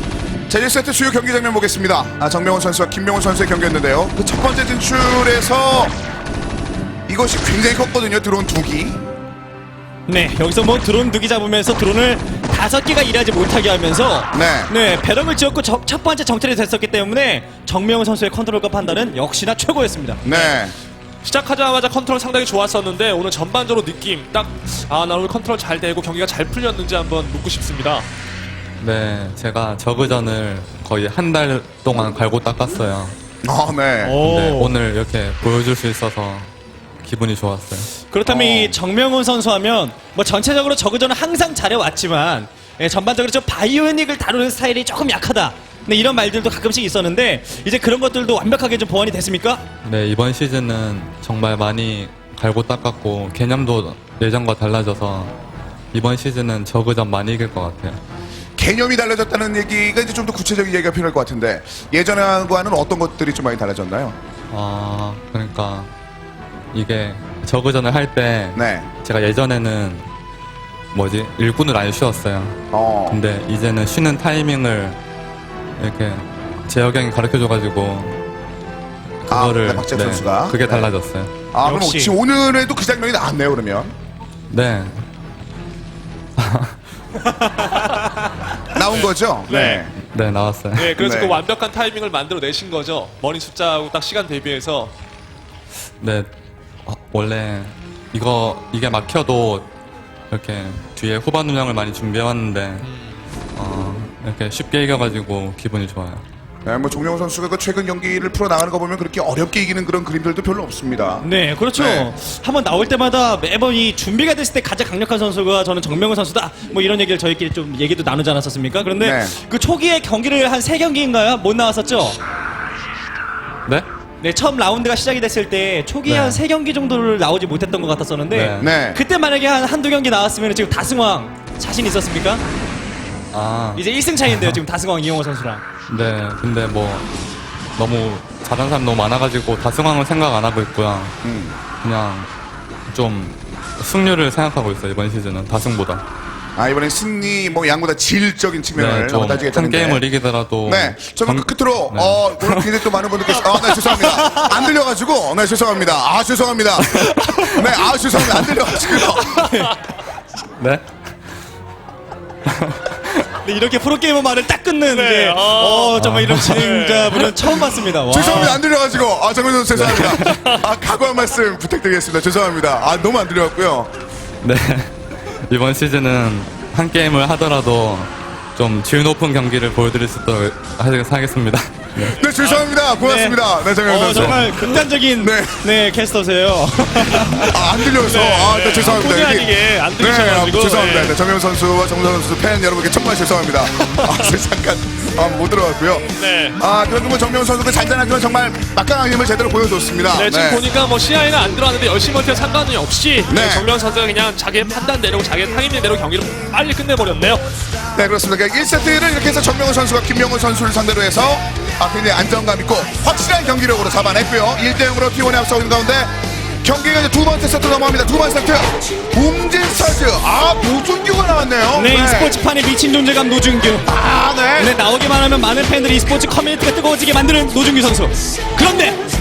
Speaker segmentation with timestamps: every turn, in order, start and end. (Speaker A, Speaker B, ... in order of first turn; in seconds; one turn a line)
Speaker A: 0.5-5.9
Speaker A: 7.1-9.0
Speaker B: 10.1-20.2
Speaker A: 14.3-14.7
Speaker A: 20.2-20.7
Speaker C: 20.3-20.6
Speaker C: 21.2-28.1
Speaker D: 28.8-33.2
Speaker A: 33.4-34.2
Speaker B: 34.0-34.7
Speaker D: 34.2-38.8
Speaker B: 38.1-49.6
Speaker D: 49.8-55.4
Speaker D: 55.9-58.0
Speaker A: 58.6-64.2
Speaker D: 64.5-65.9
Speaker D: 66.7-70.1
Speaker A: 68.5-68.9
Speaker D: 70.9-75.0
Speaker A: 72.7-73.2
Speaker D: 75.8-78.2
Speaker D: 79.2-81.3
Speaker A: 79.3-80.9
Speaker A: 81.5-83.9
Speaker B: 81.6-82.1
Speaker D: 84.5-85.0
Speaker D: 86.4-86.8
Speaker B: 87.6-87.9
Speaker A: 88.7-89.9
Speaker C: 88.8-89.8
Speaker D: 90.0-90.9
Speaker C: 90.7-94.9
Speaker A: 90.9-91.4
Speaker D: 96.0-96.3
Speaker D: 96.8-99.7
Speaker D: 100.3-102.9
Speaker C: 102.8-103.1
Speaker D: 103.5-106.2
Speaker A: 106.6-112.1
Speaker B: 111.2-122.2
Speaker A: 119.0-119.3
Speaker B: 124.2-132.4
Speaker D: 126.1-126.4
Speaker D: 128.3-128.7
Speaker A: 128.6-129.0
Speaker D: 133.3-134.6
Speaker B: 133.7-135.6
Speaker D: 135.9-137.1
Speaker D: 137.8-141.2
Speaker A: 141.2-141.6
Speaker D: 141.7-142.3
Speaker D: 142.9-146.0
Speaker A: 146.6-150.0
Speaker D: 148.7-152.9
Speaker A: 150.6-159.5
Speaker D: 153.4-154.1
Speaker B: 153.6-154.7
Speaker D: 156.8-159.0
Speaker D: 160.6-160.8
Speaker D: 162.4-163.3
Speaker B: 163.4-168.6
Speaker C: 164.9-167.3
Speaker D: 166.0-166.7
Speaker A: 168.1-173.9
Speaker D: 169.7-170.4
Speaker C: 170.1-170.6
Speaker D: 174.4-182.2
Speaker A: 182.0-184.7
Speaker B: 183.0-187.6
Speaker D: 184.1-184.4
Speaker A: 185.2-185.6
Speaker A: 187.2-200.6
Speaker C: 187.8-191.2
Speaker C: 193.8-194.3
Speaker C: 196.2-196.6
Speaker C: 200.1-207.4
Speaker A: 203.3-203.7
Speaker A: 207.9-222.4
Speaker B: 221.7-223.9
Speaker A: 223.8-224.7
Speaker B: 224.6-229.0